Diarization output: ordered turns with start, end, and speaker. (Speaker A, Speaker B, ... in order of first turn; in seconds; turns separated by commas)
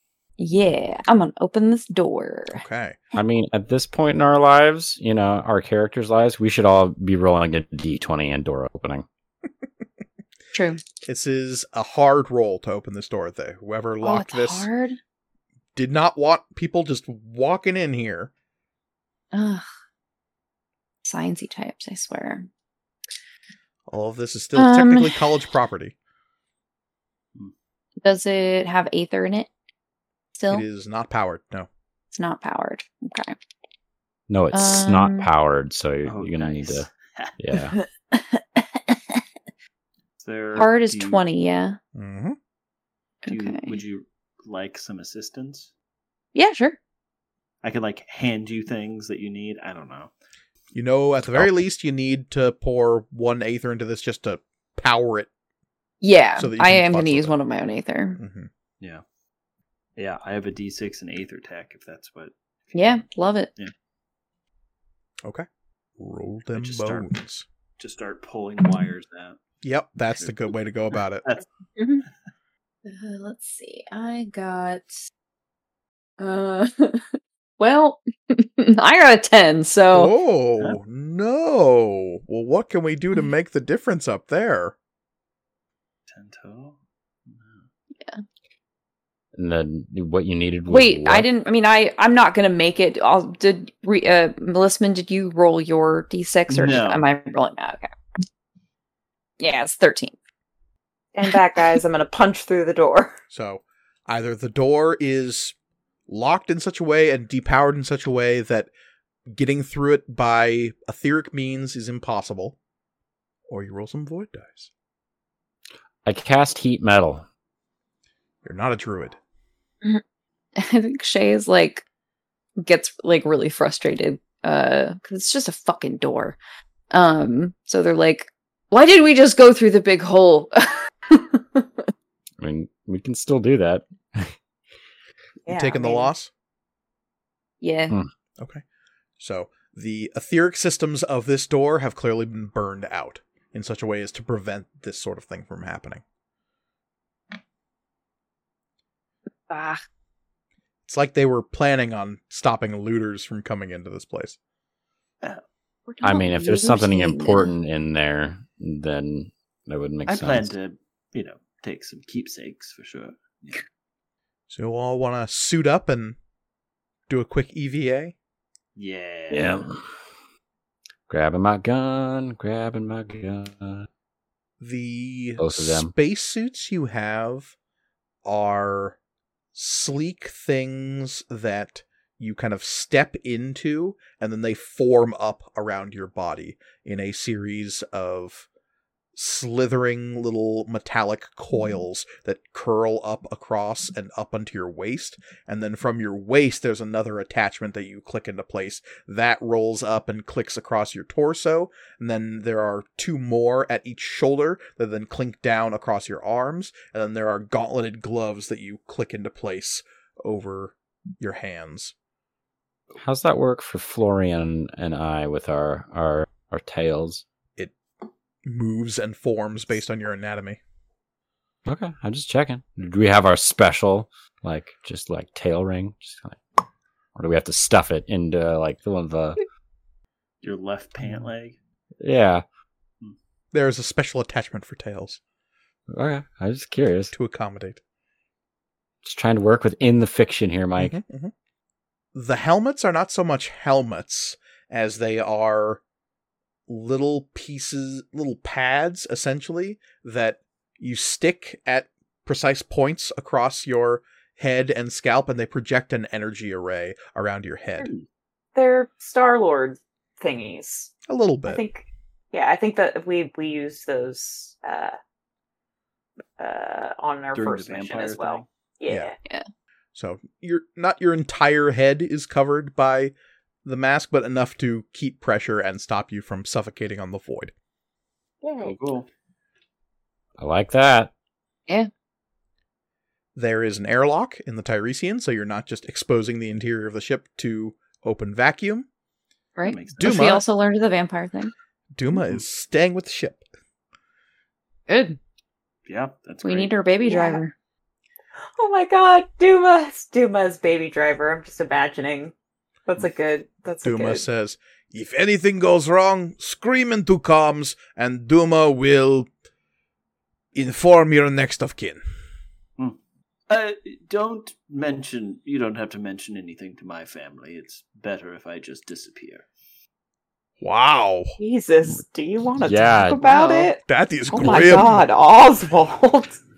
Speaker A: 0.4-2.6, Speaker B: 2.5-3.0, Speaker C: 3.2-9.1, Speaker A: 10.5-10.8, Speaker B: 11.0-14.7, Speaker A: 14.0-15.0, Speaker B: 15.8-18.3, Speaker A: 19.3-19.6, Speaker A: 21.0-22.5, Speaker B: 23.9-25.9, Speaker A: 24.6-25.4, Speaker A: 28.0-29.5, Speaker A: 30.3-30.6, Speaker B: 30.5-31.7, Speaker A: 32.2-33.4, Speaker C: 34.3-36.9, Speaker A: 34.5-35.3, Speaker D: 36.1-37.4, Speaker C: 37.4-37.8, Speaker A: 37.6-39.2, Speaker D: 40.2-41.2, Speaker A: 40.5-41.8, Speaker B: 42.0-42.4, Speaker A: 43.3-43.8, Speaker D: 43.3-45.7, Speaker A: 46.3-46.8, Speaker D: 47.6-50.1, Speaker B: 50.7-55.3, Speaker A: 56.0-58.2, Speaker B: 56.4-57.3, Speaker B: 58.2-58.5, Speaker D: 60.0-63.0, Speaker A: 62.7-63.5, Speaker B: 66.0-67.5, Speaker D: 66.5-67.1, Speaker D: 67.8-69.4, Speaker B: 69.6-71.3, Speaker A: 71.8-72.0, Speaker A: 72.8-74.9, Speaker A: 76.2-77.1, Speaker A: 77.6-80.1, Speaker B: 79.9-84.8, Speaker D: 86.1-87.7, Speaker C: 89.3-91.3, Speaker A: 90.7-97.9, Speaker D: 96.5-97.1, Speaker A: 99.4-100.2, Speaker E: 101.1-103.2, Speaker B: 103.3-105.5, Speaker B: 106.1-108.7, Speaker B: 109.3-112.6, Speaker B: 113.5-114.7, Speaker C: 116.0-117.2, Speaker B: 118.4-119.2, Speaker A: 120.6-121.8, Speaker A: 122.6-126.4, Speaker A: 126.9-131.9, Speaker C: 132.4-134.3, Speaker E: 135.4-136.1, Speaker B: 135.5-136.3, Speaker A: 137.6-138.0, Speaker B: 138.4-138.6, Speaker B: 139.2-146.0, Speaker A: 149.5-149.8, Speaker B: 150.9-154.4, Speaker A: 155.9-157.5, Speaker C: 156.0-160.5, Speaker D: 160.1-163.6, Speaker B: 164.5-166.2, Speaker B: 167.1-168.1, Speaker D: 168.8-169.7, Speaker C: 169.3-169.8, Speaker C: 171.1-173.9, Speaker B: 174.6-177.5, Speaker C: 175.4-175.9, Speaker B: 178.2-179.0, Speaker B: 179.5-188.5, Speaker B: 189.2-211.9, Speaker C: 213.0-217.2, Speaker B: 218.4-220.6, Speaker C: 221.7-226.4, Speaker C: 227.2-229.4, Speaker D: 230.4-231.6, Speaker C: 232.0-232.4, Speaker B: 233.5-235.2, Speaker C: 235.9-237.1, Speaker B: 237.1-237.8, Speaker C: 239.0-241.0, Speaker B: 240.8-241.3, Speaker B: 242.1-245.8, Speaker B: 246.7-257.9, Speaker E: 258.6-260.9, Speaker B: 261.1-261.6, Speaker E: 261.5-265.0, Speaker E: 266.4-269.1, Speaker D: 267.3-268.5, Speaker B: 269.9-273.1, Speaker B: 273.6-277.5, Speaker E: 278.4-278.8, Speaker D: 278.6-279.1, Speaker C: 280.4-281.1, Speaker B: 283.4-288.9, Speaker A: 289.6-291.5, Speaker D: 289.6-290.1, Speaker B: 290.0-290.4, Speaker B: 291.9-293.5, Speaker A: 294.9-295.2, Speaker D: 295.9-296.7, Speaker A: 296.4-297.5, Speaker E: 297.1-297.4, Speaker E: 298.6-302.3, Speaker E: 302.9-304.2, Speaker B: 303.8-309.3, Speaker B: 310.5-312.0, Speaker D: 313.5-319.5, Speaker B: 320.6-321.4, Speaker E: 321.4-323.8, Speaker C: 322.6-323.3, Speaker B: 323.9-325.0, Speaker E: 324.3-326.4